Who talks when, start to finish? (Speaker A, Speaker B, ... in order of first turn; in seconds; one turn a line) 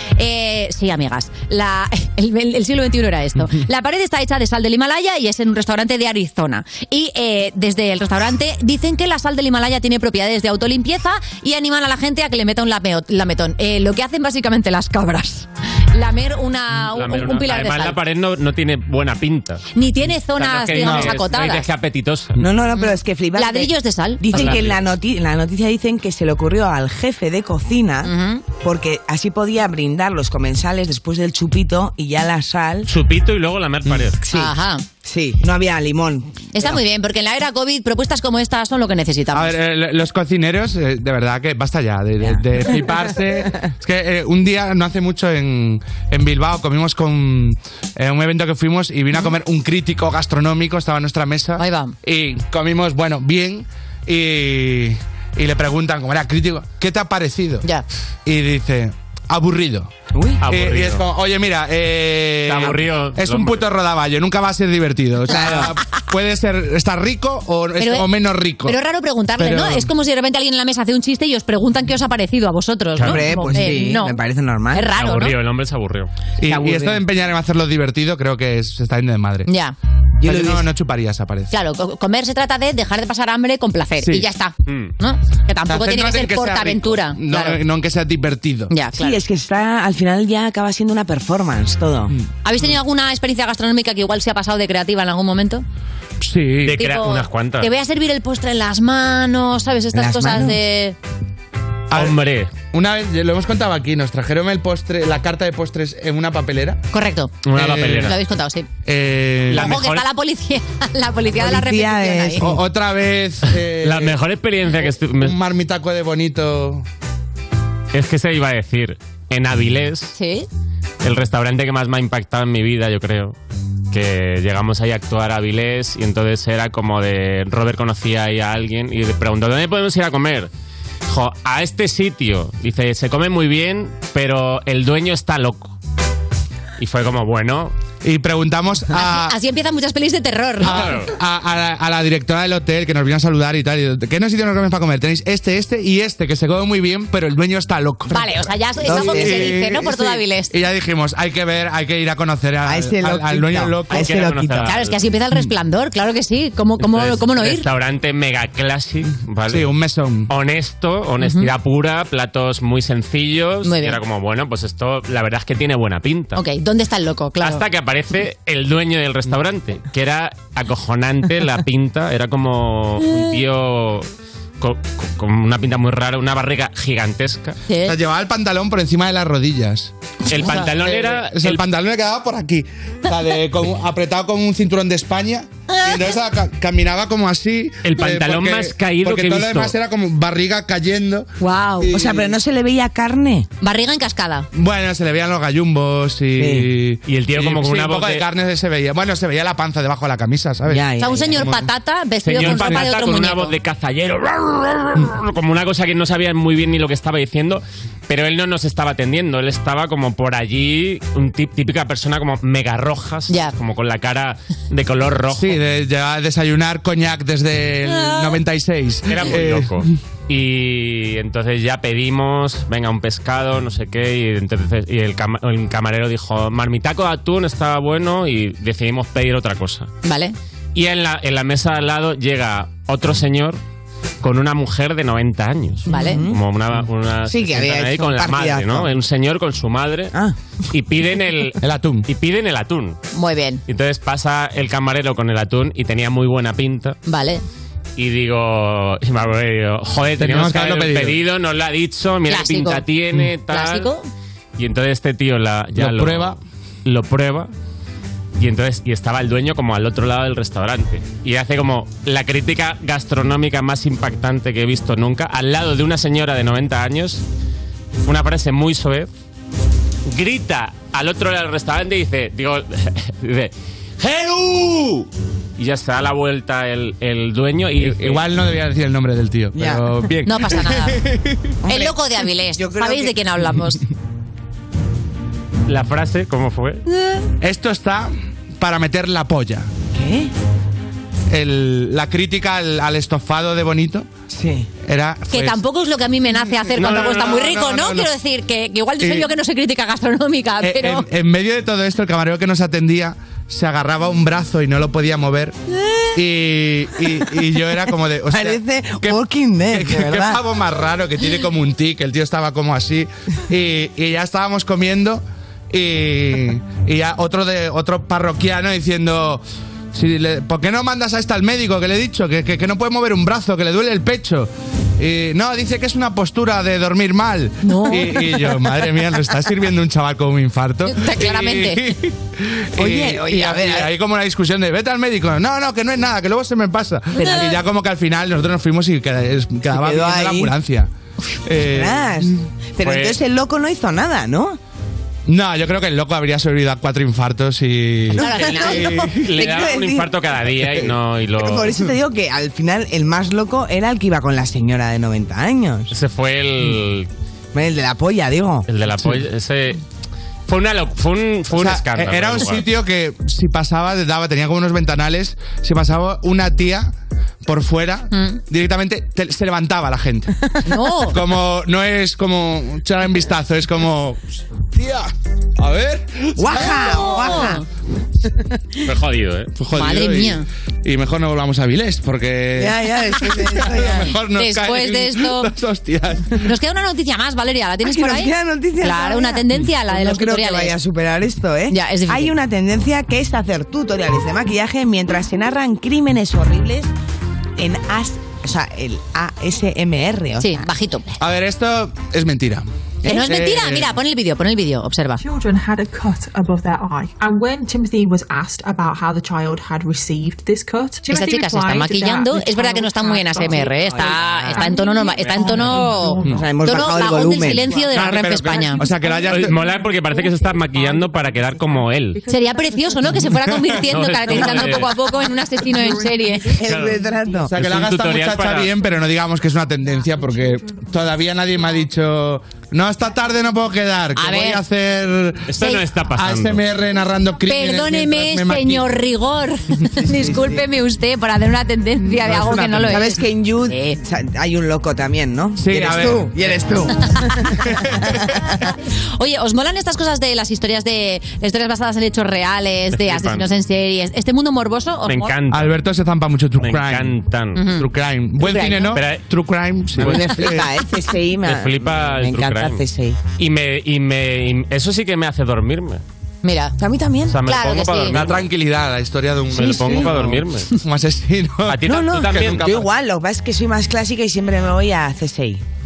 Speaker A: 0.1-18.0
Speaker B: 16.8-19.6
Speaker A: 19.7-21.7
Speaker B: 20.3-22.4
Speaker C: 20.8-21.1
Speaker D: 22.4-32.9
Speaker A: 22.7-24.6
Speaker B: 24.3-24.8
Speaker A: 28.0-28.4
Speaker B: 32.9-34.2
Speaker D: 34.2-36.8
Speaker A: 34.3-34.8
Speaker A: 36.5-39.5
Speaker C: 39.3-57.6
Speaker A: 51.6-51.9
Speaker C: 58.2-59.9
Speaker D: 60.1-60.4
Speaker B: 60.4-61.0
Speaker C: 60.4-68.8
Speaker B: 62.4-63.7
Speaker D: 65.3-65.7
Speaker A: 65.3-65.7
Speaker A: 67.8-68.1
Speaker A: 68.6-74.2
Speaker C: 69.4-69.9
Speaker B: 73.0-73.3
Speaker D: 73.0-74.9
Speaker A: 74.7-75.3
Speaker B: 74.9-76.1
Speaker C: 76.4-79.5
Speaker D: 76.4-77.0
Speaker A: 79.5-79.7
Speaker D: 80.2-80.7
Speaker C: 80.2-81.5
Speaker A: 81.5-87.6
Speaker C: 84.0-84.3
Speaker B: 84.7-84.9
Speaker C: 85.7-88.7
Speaker A: 88.7-89.2
Speaker D: 88.9-92.1
Speaker A: 92.4-95.6
Speaker C: 96.2-96.8
Speaker B: 96.6-97.7
Speaker A: 96.7-101.0
Speaker D: 99.9-100.6
Speaker C: 101.9-102.2
Speaker B: 101.9-102.5
Speaker C: 102.7-106.8
Speaker A: 106.9-108.7
Speaker B: 107.4-108.2
Speaker C: 107.5-108.1
Speaker C: 108.8-109.7
Speaker B: 109.5-110.1
Speaker A: 109.5-112.5
Speaker D: 111.3-112.6
Speaker C: 112.4-114.2
Speaker B: 113.8-115.4
Speaker C: 115.1-116.8
Speaker B: 117.9-120.1
Speaker A: 120.1-120.5
Speaker B: 121.0-123.3
Speaker B: 123.9-130.5
Speaker B: 131.1-135.7
Speaker B: 136.8-137.7
Speaker C: 138.0-139.3
Speaker A: 138.9-140.9
Speaker C: 140.6-154.1
Speaker B: 140.6-141.1
Speaker A: 148.1-150.5
Speaker D: 148.8-149.6
Speaker D: 152.6-154.8
Speaker B: 153.9-155.0
Speaker A: 154.6-157.7
Speaker B: 156.8-159.7
Speaker C: 159.4-160.3
Speaker B: 160.3-166.4
Speaker A: 161.2-161.5
Speaker A: 163.6-164.0
Speaker A: 166.3-167.6
Speaker B: 167.4-174.1
Speaker B: 174.6-177.6
Speaker A: 177.7-177.9
Speaker C: 177.8-191.3
Speaker B: 180.3-181.6
Speaker A: 185.7-185.9
Speaker B: 187.8-189.7
Speaker A: 191.4-192.0
Speaker C: 191.8-192.3
Speaker D: 191.9-193.5
Speaker A: 193.6-194.5
Speaker C: 194.5-201.7
Speaker D: 196.4-196.7
Speaker B: 197.0-198.3
Speaker D: 200.7-201.5
Speaker A: 201.0-203.5
Speaker B: 202.2-215.6
Speaker C: 202.4-202.8
Speaker A: 213.3-213.5
Speaker C: 215.3-220.0
Speaker A: 217.8-218.4
Speaker B: 219.1-229.9
Speaker A: 230.0-230.3
Speaker B: 230.7-233.6
Speaker B: 234.2-240.1
Speaker A: 235.9-236.2
Speaker D: 235.9-236.4
Speaker D: 237.2-238.9
Speaker B: 240.7-243.0
Speaker C: 241.6-242.1
Speaker A: 243.1-243.6
Speaker B: 243.7-247.0
Speaker A: 247.1-247.4
Speaker B: 247.9-253.9
Speaker C: 250.2-251.2
Speaker A: 252.3-252.8
Speaker A: 253.5-254.1
Speaker B: 254.6-257.5
Speaker C: 255.7-256.4
Speaker B: 258.4-267.2
Speaker B: 268.0-269.1
Speaker B: 270.1-278.2
Speaker C: 277.8-281.0
Speaker D: 279.5-279.9
Speaker A: 280.2-281.0
Speaker D: 281.6-283.2
Speaker A: 281.7-283.8
Speaker B: 285.7-286.8
Speaker C: 287.4-289.7
Speaker D: 289.9-290.3
Speaker C: 291.3-294.1
Speaker D: 294.3-294.7
Speaker C: 294.8-295.6
Speaker A: 295.3-301.1
Speaker C: 296.3-298.1
Speaker C: 299.0-299.3
Speaker C: 300.6-305.6
Speaker C: 306.1-340.9
Speaker D: 308.3-310.4
Speaker A: 327.6-328.4
Speaker A: 330.9-331.9
Speaker D: 332.8-333.9
Speaker A: 337.2-337.5
Speaker D: 337.2-337.6
Speaker D: 339.7-340.5
Speaker C: 341.4-342.3
Speaker D: 341.5-344.6
Speaker B: 342.8-343.2
Speaker C: 345.3-349.1
Speaker A: 348.1-349.0
Speaker D: 348.1-355.9
Speaker B: 348.4-351.8
Speaker B: 355.9-357.1
Speaker D: 357.5-358.7
Speaker B: 358.7-359.8
Speaker B: 360.5-362.7
Speaker C: 361.5-366.9
Speaker C: 367.4-370.3
Speaker A: 368.1-368.4
Speaker A: 370.6-371.2
Speaker C: 371.1-377.3
Speaker D: 376.4-377.6
Speaker A: 376.5-377.6
Speaker B: 378.9-379.5
Speaker C: 379.6-386.4
Speaker A: 379.7-380.4
Speaker D: 382.6-384.1
Speaker A: 383.7-385.5
Speaker A: 386.4-390.7
Speaker D: 387.8-396.9
Speaker A: 391.7-392.3
Speaker D: 397.6-400.7
Speaker A: 400.4-401.1
Speaker C: 401.2-404.0
Speaker D: 403.0-403.3
Speaker A: 403.1-405.2
Speaker E: 405.2-413.8
Speaker A: 411.1-418.8
Speaker D: 413.5-414.6
Speaker E: 414.4-416.5
Speaker B: 415.2-415.6
Speaker C: 415.7-416.4
Speaker D: 416.3-417.7
Speaker C: 417.2-419.6
Speaker B: 419.2-422.2
Speaker E: 419.6-423.0
Speaker A: 422.3-426.6
Speaker C: 423.4-423.8
Speaker B: 423.8-425.0
Speaker E: 425.2-426.5
Speaker D: 426.5-427.6
Speaker B: 426.6-426.9
Speaker C: 427.4-438.9
Speaker B: 427.6-428.7
Speaker A: 434.1-434.6
Speaker B: 435.5-436.6
Speaker A: 437.4-444.0
Speaker D: 440.0-440.6
Speaker C: 442.2-443.0
Speaker D: 442.2-448.6
Speaker C: 445.6-446.3
Speaker C: 447.7-448.1
Speaker A: 449.2-455.3
Speaker B: 452.9-453.5
Speaker B: 455.0-455.7
Speaker C: 455.5-457.2
Speaker B: 456.6-457.6
Speaker A: 457.6-457.9
Speaker C: 457.7-460.7
Speaker A: 458.4-459.0
Speaker B: 458.9-459.2
Speaker D: 459.9-463.2
Speaker B: 461.4-462.8
Speaker B: 463.4-466.0
Speaker A: 466.4-466.8
Speaker D: 466.8-467.4
Speaker B: 467.3-468.5
Speaker A: 467.4-468.3
Speaker C: 468.1-471.8
Speaker D: 469.5-470.4
Speaker B: 469.5-470.7
Speaker B: 471.7-472.9
Speaker D: 471.8-475.6
Speaker C: 472.4-472.6